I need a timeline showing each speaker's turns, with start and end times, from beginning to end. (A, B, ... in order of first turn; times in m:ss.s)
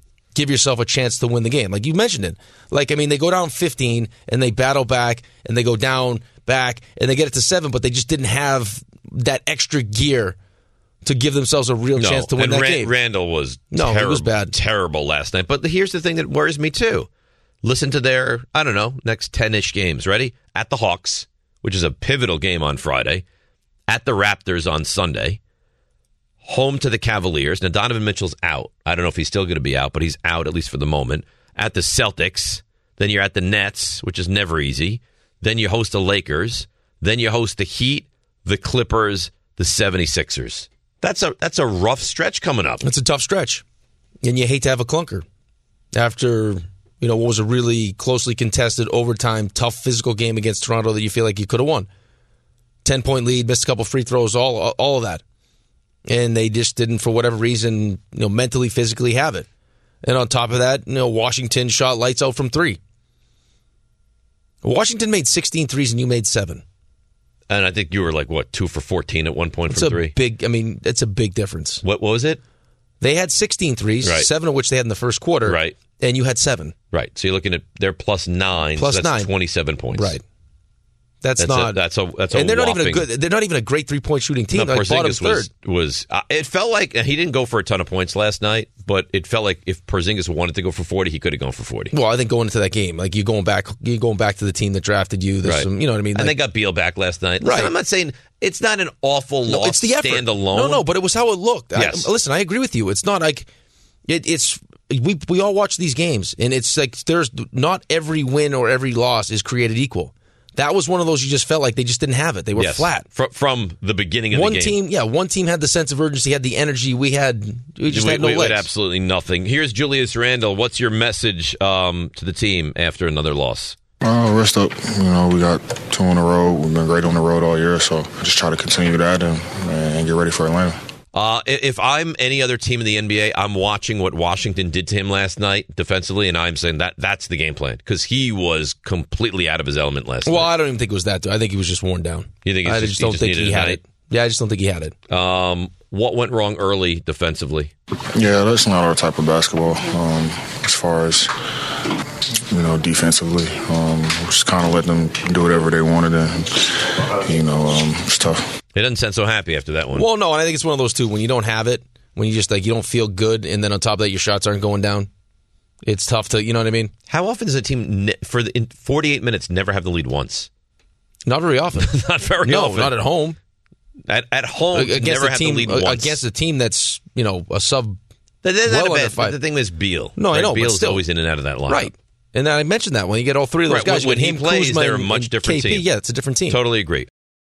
0:00.3-0:10.4 A
0:11.0-0:12.9 A
0:12.0-0:17.1 B
0:13.7-0:14.5 A
0:17.6-0:23.2 B
0:23.9-0:25.4 B
0:26.4-0:42.8 B
0:42.8-0:43.6 A
0:44.2-0:45.2 A
0:45.9-0:51.9 A
0:52.8-0:55.2 A
0:56.1-0:59.4 A
1:00.0-1:02.8 A
1:04.6-1:06.6 A
1:07.5-1:10.1 B
1:09.7-1:11.8 A
1:11.8-1:12.4 B
1:13.0-1:16.7 A
1:14.0-1:14.3 B
1:15.4-1:15.8 B
1:16.9-1:20.2 B
1:18.8-1:19.3 A
1:19.9-1:20.2 A
1:21.2-1:21.8 A
1:21.4-1:23.1 B
1:22.3-1:25.5 A
1:24.5-1:31.9 B
1:31.9-1:36.4 A
1:35.4-1:40.8 B
1:37.4-1:37.7 A
1:39.5-1:43.5 A
1:41.7-1:42.1 B
1:44.1-1:53.0 A
1:52.6-1:54.7 B
1:54.3-1:58.6 A
1:57.9-2:03.7 B
2:04.0-2:10.7 C
2:11.1-2:20.5 B
2:20.2-2:24.9 A
2:22.4-2:23.8 B
2:25.1-2:27.7 B
2:28.1-2:31.3 C
2:32.4-2:38.4 C
2:38.7-2:40.0 B
2:39.9-2:45.1 A
2:45.8-2:46.9 A
2:47.1-2:50.5 B
2:51.3-2:53.4 A
2:51.8-2:52.9 B
2:54.1-2:56.2 B
2:54.7-2:58.0 A
2:58.4-3:01.9 B
2:58.7-2:59.4 A
3:00.2-3:01.0 A
3:01.7-3:06.6 A
3:03.7-3:05.8 B
3:06.5-3:07.1 B